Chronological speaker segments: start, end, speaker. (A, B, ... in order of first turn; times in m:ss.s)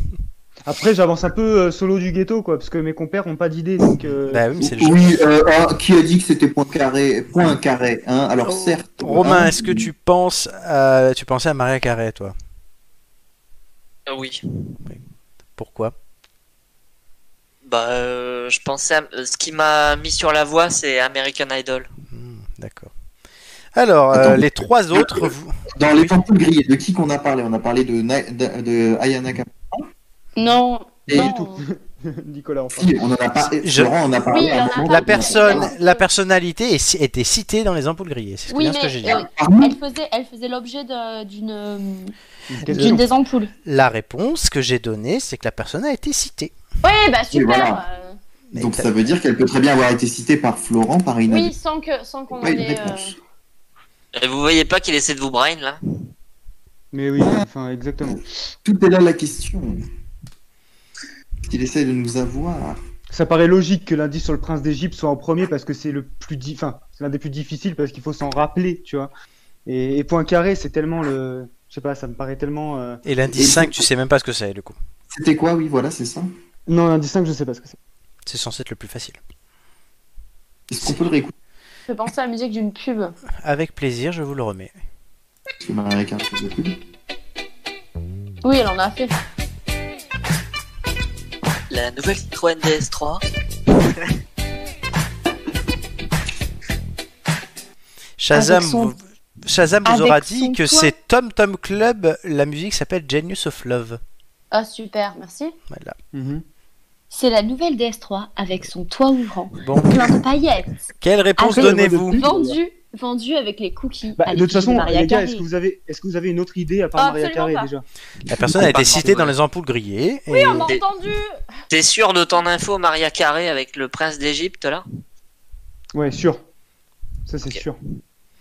0:00.6-0:04.4 A
0:04.3-0:05.0 B
0:04.6-0:09.8 C
0:08.4-0:12.4 B
0:14.1-0:14.4 D
0:15.6-0:15.9 B
0:17.6-0:21.9 D
0:22.1-0:22.9 B
0:23.8-0:26.1 B
0:24.1-0:29.8 C
0:30.4-0:31.6 E
0:31.1-0:33.0 A
0:32.8-0:35.7 C
0:33.6-0:33.9 B
0:34.2-0:36.0 E
0:34.7-0:39.2 B
0:38.5-0:42.1 E
0:39.1-0:39.8 C
0:42.5-0:43.0 A
0:42.7-0:43.5 E
0:42.7-0:43.0 B
0:43.6-0:46.5 B
0:46.8-0:48.2 E
0:47.3-0:47.8 C
0:48.5-0:48.9 B
0:48.6-0:51.5 C
0:51.3-0:53.1 E
0:52.4-0:53.1 C
0:54.2-0:55.8 D
0:56.9-0:58.2 A
0:58.6-0:59.8 C
1:01.5-1:02.8 C
1:03.1-1:09.1 A
1:09.7-1:13.0 A
1:13.0-1:14.8 B
1:13.3-1:13.8 C
1:15.1-1:16.3 C
1:16.7-1:17.8 A
1:18.3-1:19.2 B
1:20.7-1:21.3 C
1:20.8-1:21.1 B
1:21.9-1:23.1 E
1:23.4-1:24.7 B
1:25.6-1:26.8 C
1:28.4-1:29.1 E
1:31.7-1:33.2 D
1:38.2-1:44.0 B
1:38.3-1:38.9 E
1:39.8-1:40.9 E
1:44.5-1:45.5 E
1:46.1-1:46.4 A
1:47.1-1:50.7 E
1:49.6-1:50.2 B
1:51.0-1:52.2 B
1:51.4-1:55.4 E
1:51.5-1:52.6 A
1:54.2-1:57.8 A
1:57.0-1:57.7 E
1:58.3-2:00.7 B
1:58.5-1:59.3 A
1:58.7-1:59.2 D
2:00.3-2:01.4 E
2:01.7-2:04.8 D
2:05.9-2:06.4 A
2:07.3-2:07.8 A